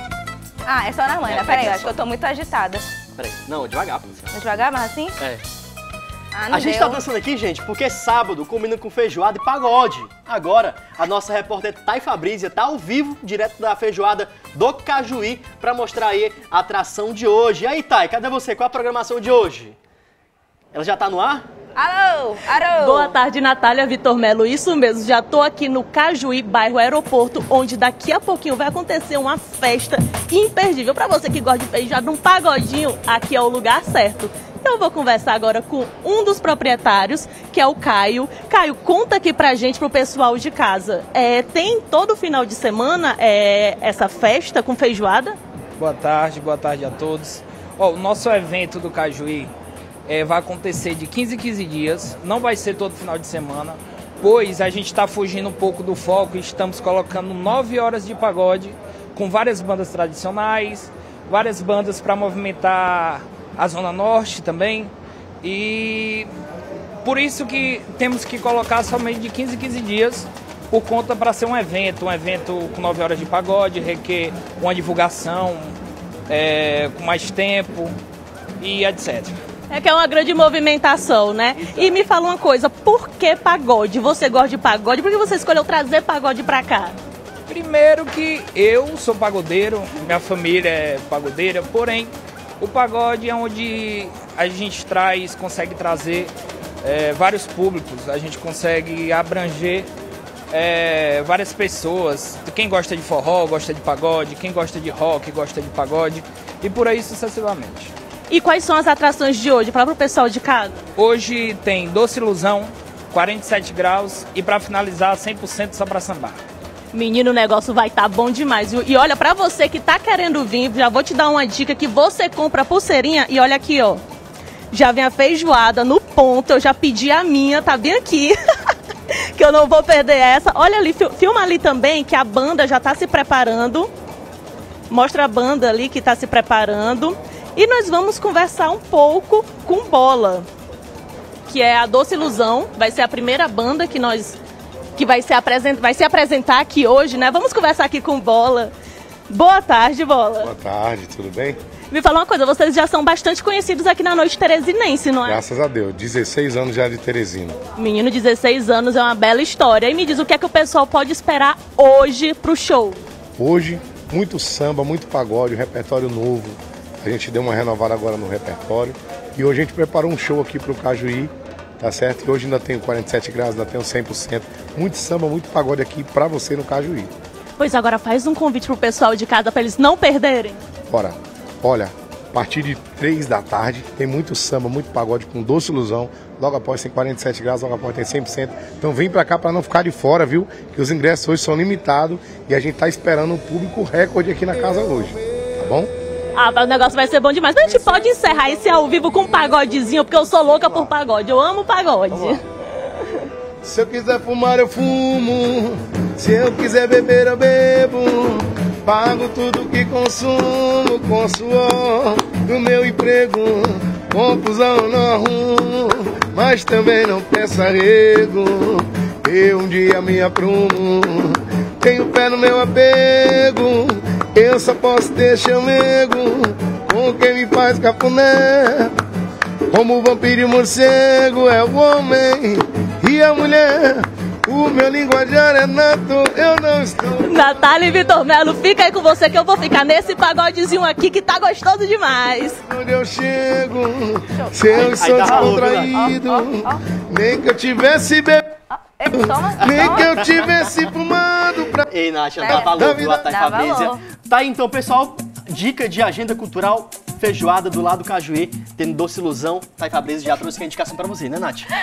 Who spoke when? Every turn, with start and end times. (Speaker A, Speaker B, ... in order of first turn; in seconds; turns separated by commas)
Speaker A: 0.7-2.9, Speaker B: 1.3-2.0, Speaker B: 3.2-4.4, Speaker A: 4.3-5.2, Speaker A: 6.3-7.0, Speaker B: 6.5-19.8, Speaker B: 20.7-21.5, Speaker A: 21.8-23.2, Speaker C: 22.7-45.4, Speaker D: 45.8-49.5, Speaker D: 50.1-66.3, Speaker D: 67.0-75.7, Speaker D: 76.3-77.9, Speaker D: 78.6-79.4, Speaker C: 79.7-87.0, Speaker D: 87.5-99.9, Speaker D: 100.5-107.9, Speaker C: 108.3-110.7, Speaker D: 111.0-116.4, Speaker C: 116.9-124.0, Speaker C: 124.7-128.3, Speaker C: 129.1-133.9, Speaker C: 134.9-140.5, Speaker C: 141.5-144.4, Speaker C: 145.0-148.7, Speaker C: 149.3-150.5, Speaker E: 150.4-151.6, Speaker C: 151.9-155.4, Speaker E: 155.2-157.6, Speaker C: 157.8-163.0, Speaker E: 163.4-177.1, Speaker C: 177.6-180.6, Speaker E: 180.9-195.9, Speaker C: 196.4-202.4, Speaker E: 203.6-228.9, Speaker E: 229.7-237.6, Speaker C: 237.2-242.6, Speaker E: 242.7-248.5, Speaker B: 244.7-246.0, Speaker A: 245.3-246.8, Speaker A: 248.7-250.1, Speaker E: 249.1-251.8, Speaker B: 249.6-250.4, Speaker B: 251.9-261.7, Speaker A: 252.4-252.7, Speaker E: 252.5-253.3, Speaker A: 253.2-254.0